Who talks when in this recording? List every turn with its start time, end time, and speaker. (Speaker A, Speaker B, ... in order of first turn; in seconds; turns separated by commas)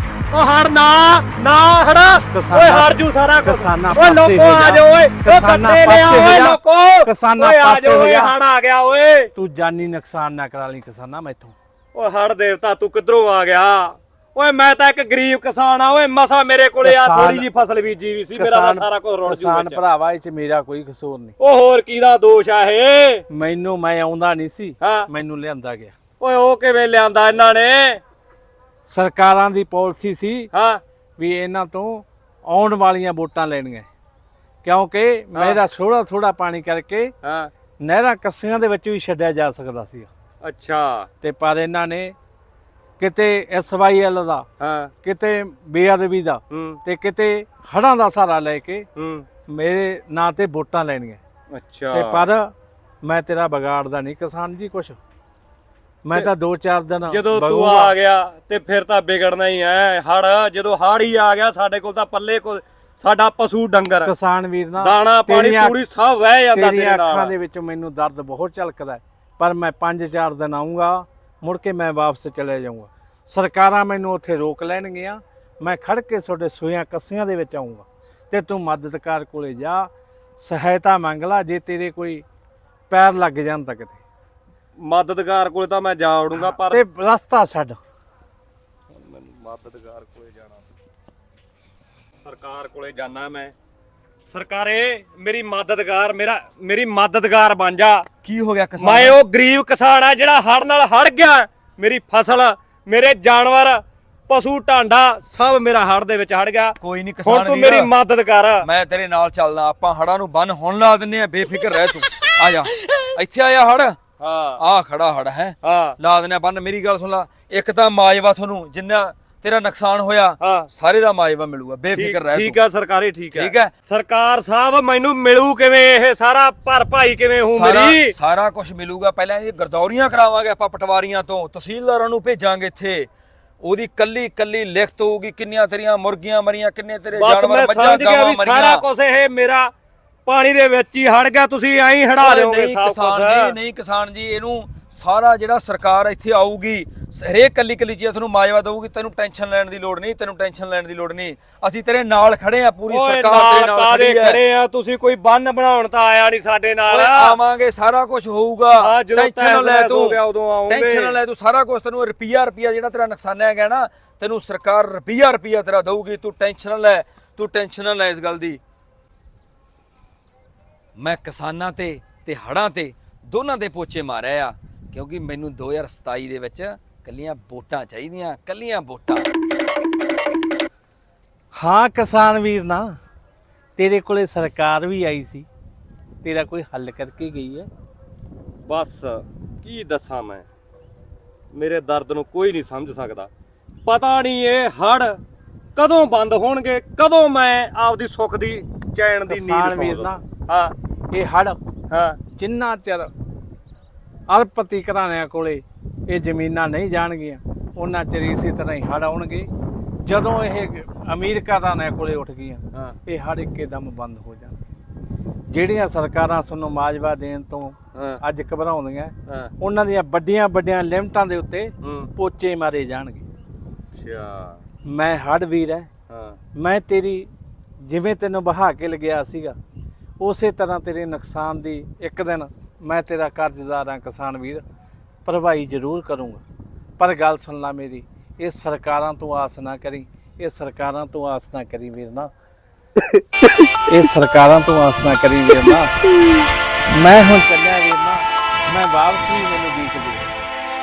Speaker A: 0.3-9.3, Speaker B: 2.3-8.3, Speaker B: 9.3-11.6, Speaker A: 11.9-19.8, Speaker B: 16.8-17.5, Speaker B: 18.4-21.3, Speaker A: 21.4-23.2, Speaker B: 23.3-25.9, Speaker A: 24.8-25.1, Speaker A: 26.2-28.0, Speaker B: 28.9-30.5, Speaker A: 30.5-30.8, Speaker B: 31.2-33.9, Speaker B: 34.6-37.1, Speaker A: 35.3-35.6, Speaker A: 37.2-37.5, Speaker B: 37.8-40.1, Speaker A: 40.4-41.1, Speaker B: 41.2-42.1, Speaker B: 43.0-44.5, Speaker A: 44.6-44.9, Speaker B: 45.0-48.9, Speaker A: 46.5-46.8, Speaker A: 49.0-49.2, Speaker B: 49.5-51.2, Speaker A: 51.5-52.2, Speaker B: 51.9-55.0, Speaker B: 56.0-57.9, Speaker A: 57.1-64.1, Speaker B: 64.0-65.8, Speaker A: 64.8-67.3, Speaker B: 66.5-82.2, Speaker B: 82.9-84.0, Speaker A: 84.8-86.8, Speaker B: 86.3-87.8, Speaker A: 88.9-90.6, Speaker A: 92.2-93.5, Speaker A: 94.3-98.0, Speaker C: 98.2-99.2, Speaker A: 98.8-108.7, Speaker C: 106.8-107.9, Speaker C: 108.6-114.0, Speaker A: 114.2-114.6, Speaker C: 114.6-122.6, Speaker A: 115.6-116.0, Speaker A: 120.4-120.7, Speaker A: 121.9-128.1, Speaker C: 123.3-123.7, Speaker C: 127.4-133.1, Speaker C: 133.6-138.8, Speaker A: 137.1-139.7, Speaker A: 140.2-143.6, Speaker C: 142.2-154.4, Speaker A: 152.9-157.4, Speaker C: 156.9-168.6, Speaker A: 158.7-161.2, Speaker C: 171.0-179.3, Speaker B: 181.5-182.9, Speaker B: 183.8-185.5, Speaker B: 186.2-187.7, Speaker A: 188.7-190.4, Speaker A: 191.5-193.3, Speaker A: 193.8-195.2, Speaker A: 195.8-200.7, Speaker B: 199.3-200.2, Speaker B: 201.1-201.6, Speaker A: 201.9-202.2, Speaker B: 202.3-203.1, Speaker B: 204.3-209.5, Speaker B: 210.0-214.6, Speaker B: 215.5-223.2, Speaker A: 217.9-218.2, Speaker A: 219.3-219.5, Speaker A: 221.8-222.1, Speaker A: 223.9-224.6, Speaker B: 224.9-225.9, Speaker A: 226.1-226.4, Speaker B: 226.6-227.3, Speaker B: 227.8-229.5, Speaker B: 230.2-234.6, Speaker B: 235.2-236.4, Speaker B: 237.0-242.3, Speaker B: 243.9-245.9, Speaker B: 246.9-250.3